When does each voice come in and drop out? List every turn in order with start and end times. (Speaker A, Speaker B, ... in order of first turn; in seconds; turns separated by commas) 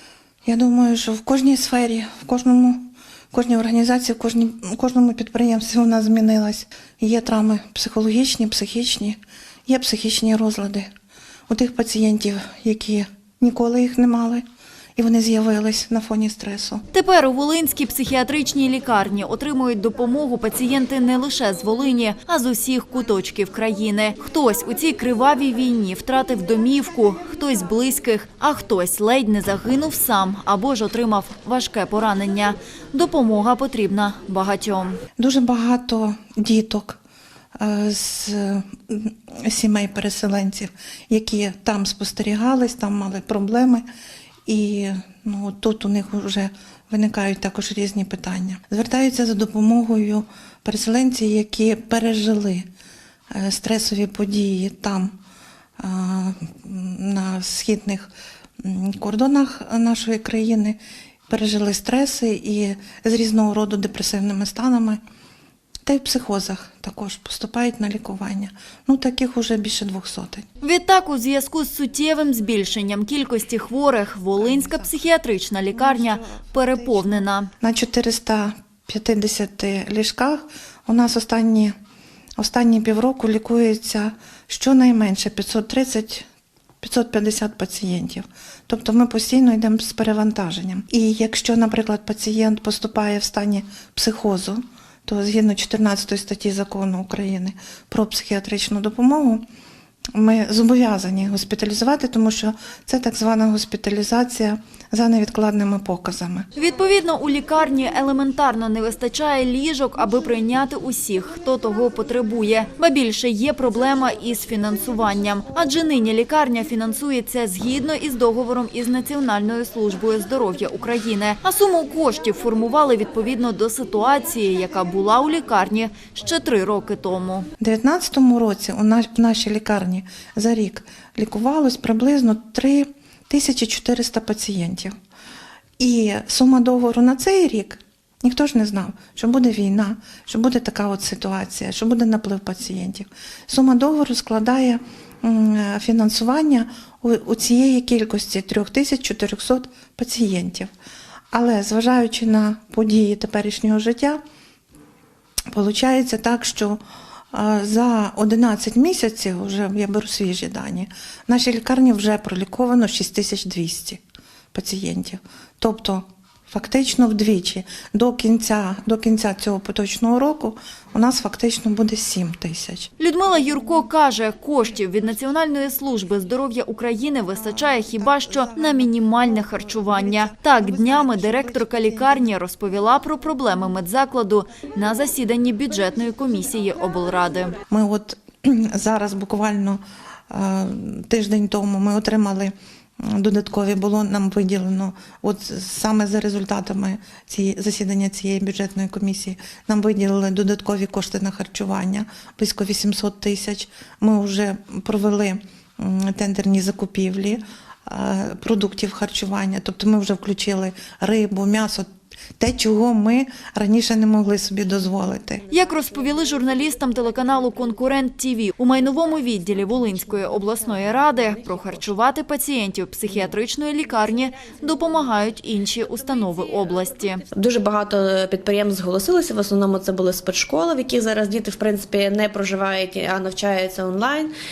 Speaker A: 0.5-10.9, Speaker A: 11.5-14.4, Speaker A: 15.0-16.9, Speaker B: 16.9-35.0, Speaker A: 35.2-37.0, Speaker A: 37.6-43.9, Speaker A: 44.5-52.7, Speaker A: 53.3-55.1, Speaker A: 55.8-58.1, Speaker A: 58.6-65.0, Speaker A: 65.8-70.5, Speaker B: 70.6-77.5, Speaker A: 74.4-75.0, Speaker A: 75.8-81.8, Speaker A: 82.4-86.3, Speaker A: 86.8-99.4, Speaker A: 100.2-106.5, Speaker B: 106.6-127.5, Speaker A: 127.6-134.9, Speaker A: 135.8-150.7, Speaker A: 151.3-154.2, Speaker A: 155.5-156.8, Speaker A: 157.3-164.0, Speaker A: 164.5-172.9, Speaker B: 173.0-187.6, Speaker A: 177.4-182.3, Speaker A: 187.7-211.9, Speaker A: 212.4-215.5, Speaker B: 215.5-227.2, Speaker C: 227.3-234.3